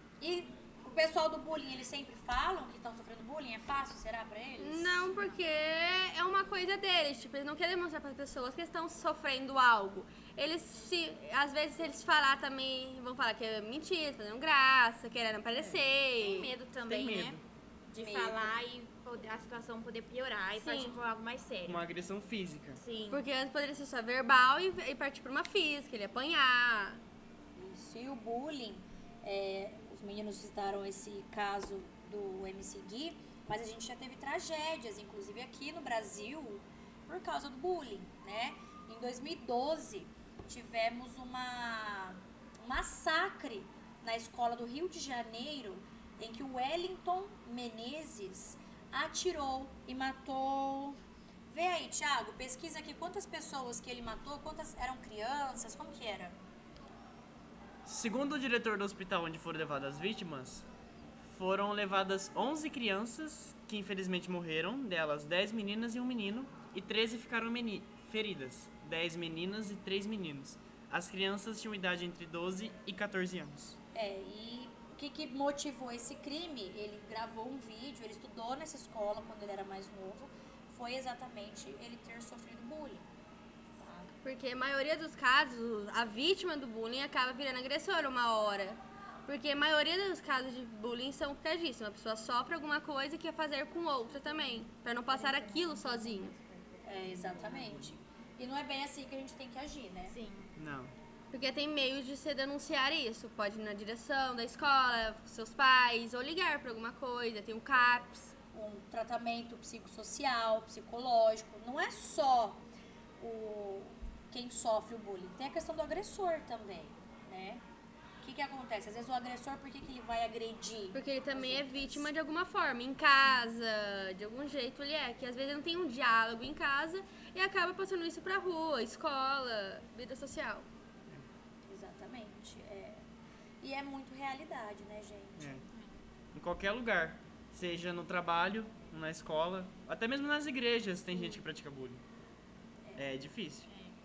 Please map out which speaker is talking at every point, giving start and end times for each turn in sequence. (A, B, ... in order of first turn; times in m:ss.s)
0:00.2-0:05.1 A
0:04.6-0:16.5 B
0:05.1-0:05.4 C
0:16.2-0:21.8 C
0:16.8-0:17.4 D
0:18.0-0:18.6 A
0:20.6-0:21.0 B
0:21.7-0:22.8 D
0:22.8-0:23.2 C
0:23.1-0:27.0 B
0:27.6-0:51.0 A
0:51.5-0:56.4 A
0:57.8-1:00.7 D
1:01.2-1:13.8 D
1:13.9-1:23.1 A
1:23.8-1:24.1 A
1:24.2-1:36.4 B
1:34.9-1:36.3 C
1:36.8-1:40.2 A
1:37.5-1:37.8 D
1:40.1-1:40.5 C
1:40.6-1:40.9 D
1:41.3-1:48.3 B
1:48.5-1:52.6 A
1:53.2-1:57.6 A
1:58.2-2:02.1 A
2:00.9-2:10.7 B
2:11.7-2:13.0 A
2:13.6-2:15.6 A
2:15.4-2:15.6 D
2:15.7-2:16.0 C
2:16.3-2:22.0 D
2:23.0-2:23.7 D
2:23.7-2:24.0 C